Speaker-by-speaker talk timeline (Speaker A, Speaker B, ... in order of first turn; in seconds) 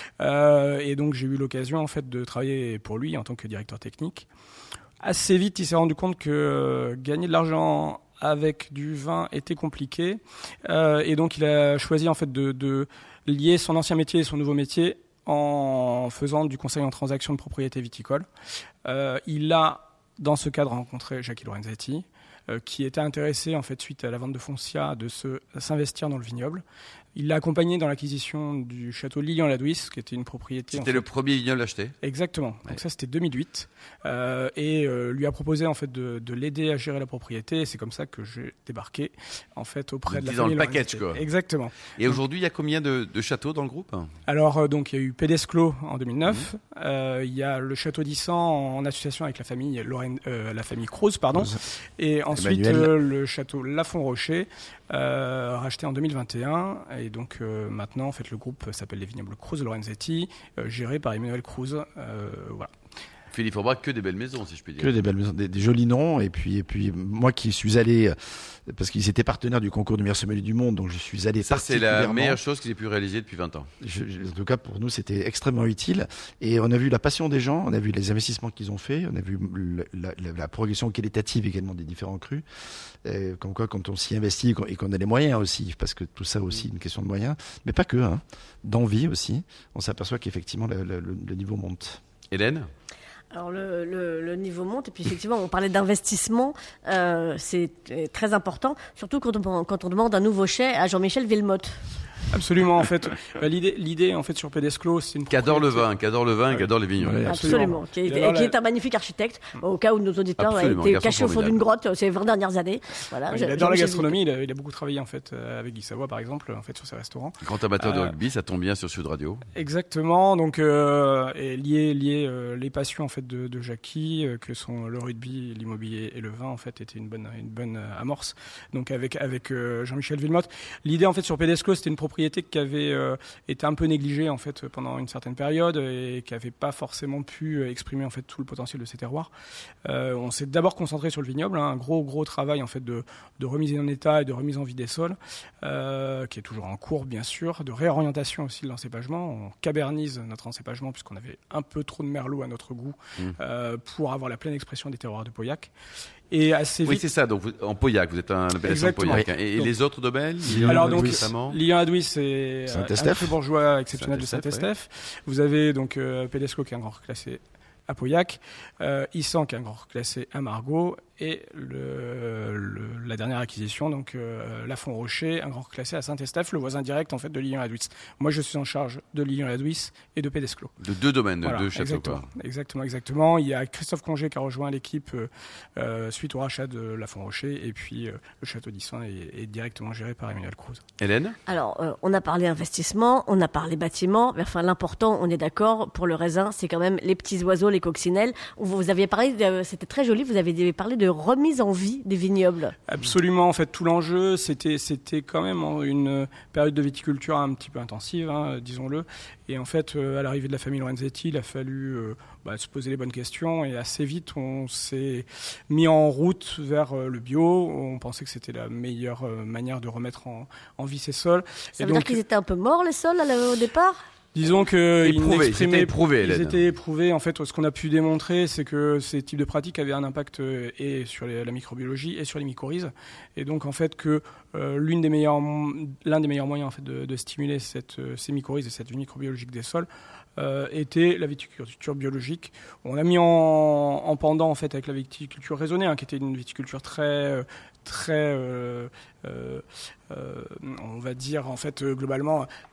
Speaker A: 0.2-4.3, 5.0-18.3, 18.9-26.6, 27.1-31.1, 32.0-41.8, 44.3-62.7, 102.3-105.9, 107.3-108.6, 113.2-118.2, 119.5-139.3, 139.9-155.7, 156.3-157.0, 158.6-159.8, 160.6-180.8, 181.4-190.8, 202.9-222.2, 224.3-252.5
Speaker B: 30.7-31.9, 40.1-41.2, 41.9-44.1, 63.3-64.9, 71.4-73.7, 92.3-92.7, 105.3-107.3, 110.4-111.6, 117.4-119.5, 156.8-161.6, 163.9-164.7, 180.8-182.3, 191.0-191.4, 225.0-226.6
Speaker C: 52.3-53.0, 64.8-68.2, 68.7-72.4, 73.8-82.4, 83.0-92.0, 107.0-107.5, 160.4-161.3, 162.7-163.4
Speaker D: 93.3-101.8, 107.2-114.2, 191.5-202.8, 221.8-224.0